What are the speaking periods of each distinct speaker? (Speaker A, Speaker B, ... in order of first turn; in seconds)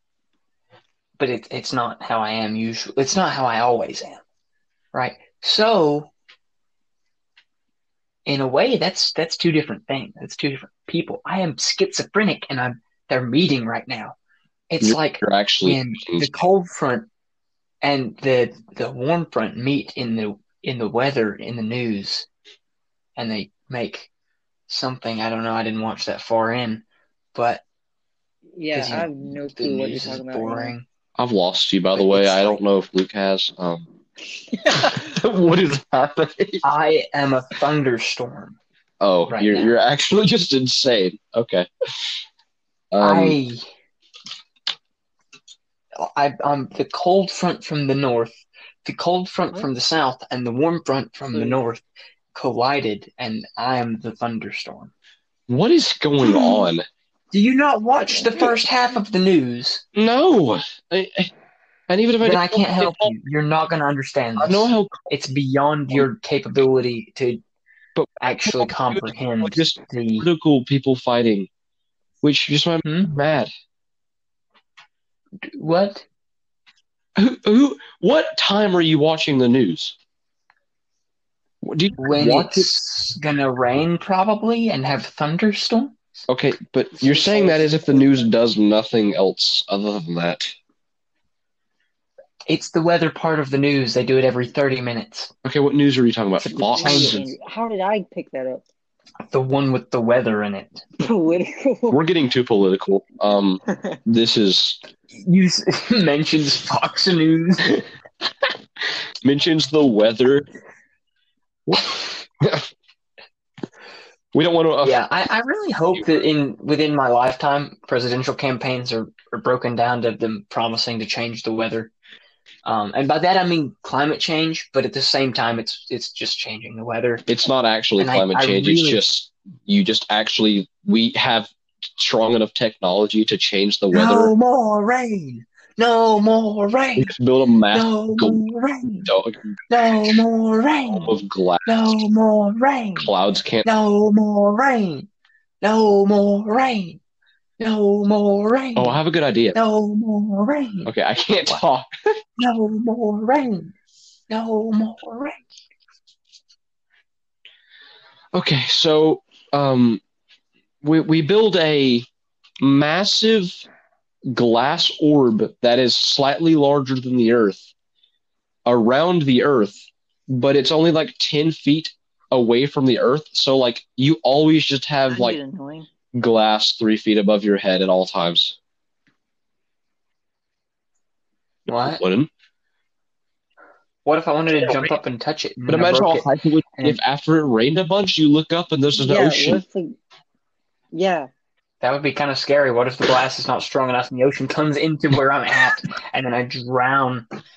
Speaker A: 1.2-4.2, 4.9-6.1, 8.2-14.2, 14.7-17.1, 17.8-22.3, 23.2-24.1, 24.7-27.6, 28.7-30.8, 31.9-32.4, 36.6-38.6, 39.3-39.7, 43.0-43.6, 46.0-51.8, 52.3-54.9, 56.2-56.7, 57.3-59.8, 62.2-67.4, 68.2-70.3, 72.8-73.1, 75.5-76.0, 82.0-86.0, 92.5-95.3, 96.4-97.3, 99.3-100.8, 105.1-107.8, 114.8-121.9, 122.6-127.2, 128.0-129.0, 133.9-137.1, 137.7-139.1, 139.7-143.1, 143.6-145.1, 145.6-147.0, 147.6-149.0, 149.5-150.9, 152.4-153.7, 154.3-155.4, 181.7-182.0, 184.0-187.0, 191.8-197.3
Speaker B: 14.8-16.3, 31.2-33.9, 34.7-36.6, 39.0-42.2, 42.9-43.4, 55.5-56.9, 59.9-61.3, 61.9-63.1, 64.4-65.1, 68.0-71.5, 72.2-73.5, 77.2-80.0, 81.6-82.7, 86.3-90.5, 95.4-97.2, 101.9-104.8, 109.2-110.5, 111.7-112.7, 114.3-115.0, 115.9-116.2, 127.3-134.3, 136.9-138.4, 139.0-140.1, 140.9-141.7, 143.0-143.7, 148.8-149.6, 150.8-152.2, 158.3-160.0, 160.8-162.1, 162.6-163.6, 164.3-167.7, 168.7-175.4, 176.1-178.6, 181.7-182.3, 184.5-184.9, 185.7-189.6
Speaker C: 28.5-30.7, 87.0-88.3, 96.7-98.6, 101.0-102.0, 103.7-104.0, 175.1-175.9, 189.0-190.0, 190.9-191.3